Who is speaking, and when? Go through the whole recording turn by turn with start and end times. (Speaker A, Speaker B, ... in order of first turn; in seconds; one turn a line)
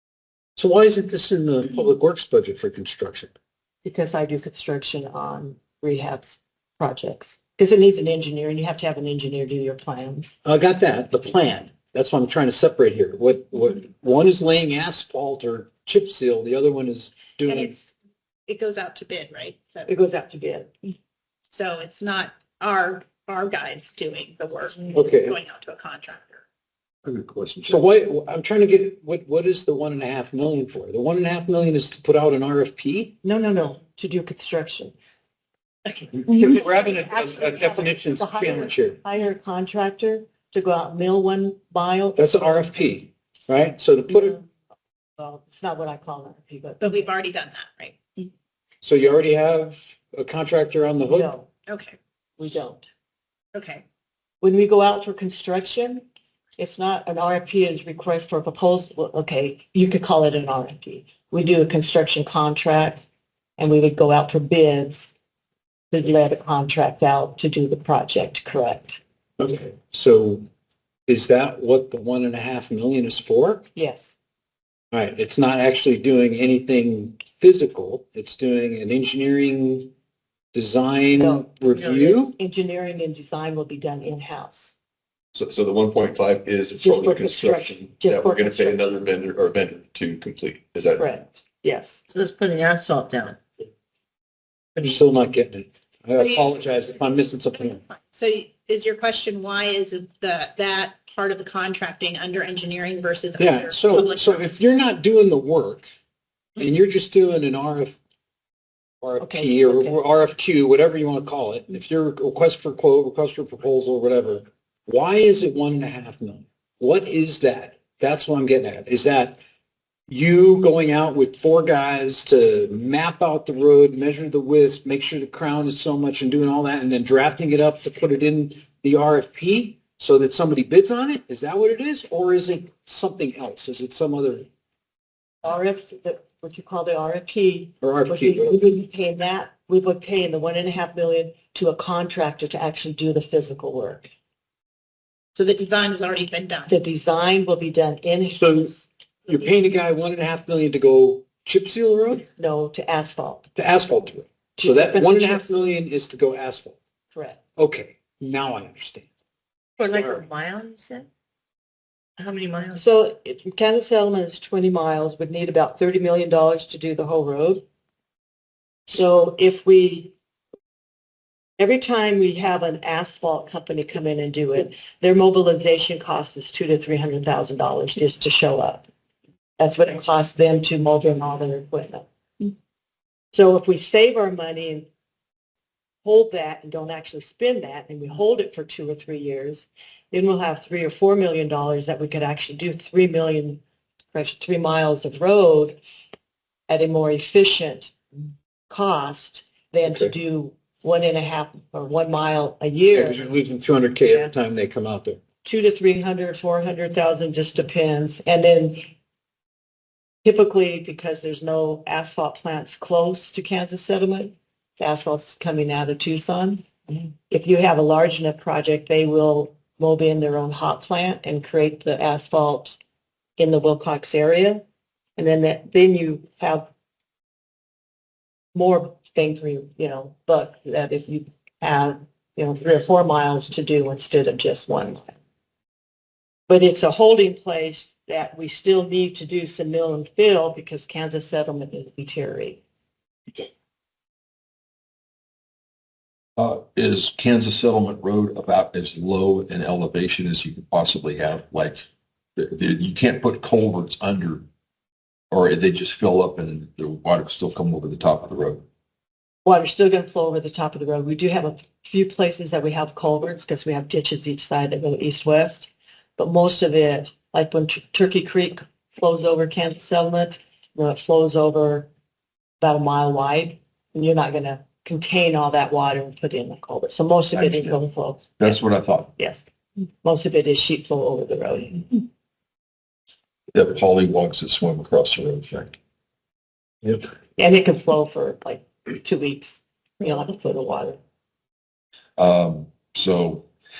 Speaker A: 0.6-3.3
Speaker B: 3.8-10.4
Speaker A: 10.4-17.7
Speaker C: 17.4-17.9
Speaker C: 18.5-19.9
Speaker B: 19.9-20.7
Speaker C: 21.5-26.4
Speaker A: 24.9-25.4
Speaker D: 27.0-27.8
Speaker A: 27.6-33.1
Speaker B: 33.2-34.9
Speaker B: 35.9-42.9
Speaker A: 36.2-39.0
Speaker A: 42.1-44.4
Speaker B: 44.1-44.4
Speaker B: 45.2-47.1
Speaker C: 46.8-48.0
Speaker A: 48.8-51.3
Speaker B: 51.0-51.5
Speaker C: 51.7-52.0
Speaker B: 52.4-52.9
Speaker C: 53.5-53.8
Speaker B: 54.4-56.0
Speaker B: 56.6-63.0
Speaker B: 63.6-65.1
Speaker B: 65.9-69.0
Speaker A: 69.4-70.4
Speaker A: 71.1-73.7
Speaker B: 73.7-74.2
Speaker A: 74.9-79.9
Speaker A: 80.5-82.3
Speaker B: 81.1-84.7
Speaker D: 85.3-91.0
Speaker B: 86.8-88.9
Speaker B: 91.0-92.0
Speaker E: 92.1-93.4
Speaker A: 94.8-97.8
Speaker C: 97.7-104.4
Speaker A: 103.4-105.9
Speaker A: 106.6-108.0
Speaker A: 109.0-119.4
Speaker B: 109.2-110.0
Speaker A: 120.1-134.4
Speaker B: 135.4-144.1
Speaker A: 137.8-138.7
Speaker C: 145.3-146.7
Speaker B: 146.7-148.8
Speaker A: 148.4-148.7
Speaker A: 149.2-152.2
Speaker B: 152.4-153.5
Speaker A: 153.6-156.8
Speaker B: 154.6-155.5
Speaker B: 157.1-157.4
Speaker A: 157.6-159.1
Speaker E: 159.8-161.1
Speaker A: 159.8-160.2
Speaker E: 162.2-162.8
Speaker B: 162.8-167.6
Speaker B: 168.9-170.1
Speaker B: 171.6-178.8
Speaker B: 179.6-182.0
Speaker B: 183.3-184.9
Speaker B: 186.0-193.6
Speaker B: 194.1-195.8
Speaker B: 196.7-197.9
Speaker B: 198.7-203.3
Speaker A: 202.9-205.2
Speaker B: 204.1-204.3
Speaker B: 205.4-208.9
Speaker B: 210.2-222.8
Speaker B: 223.4-224.6
Speaker B: 225.2-226.7
Speaker B: 228.5-235.0
Speaker B: 236.5-242.6
Speaker D: 246.4-251.8
Speaker D: 252.3-254.4
Speaker D: 255.3-258.6
Speaker B: 259.4-271.9
Speaker B: 272.6-278.6
Speaker D: 278.4-279.1
Speaker B: 279.1-279.4
Speaker B: 280.0-282.0
Speaker D: 283.5-285.7
Speaker B: 287.4-291.0
Speaker D: 292.2-293.5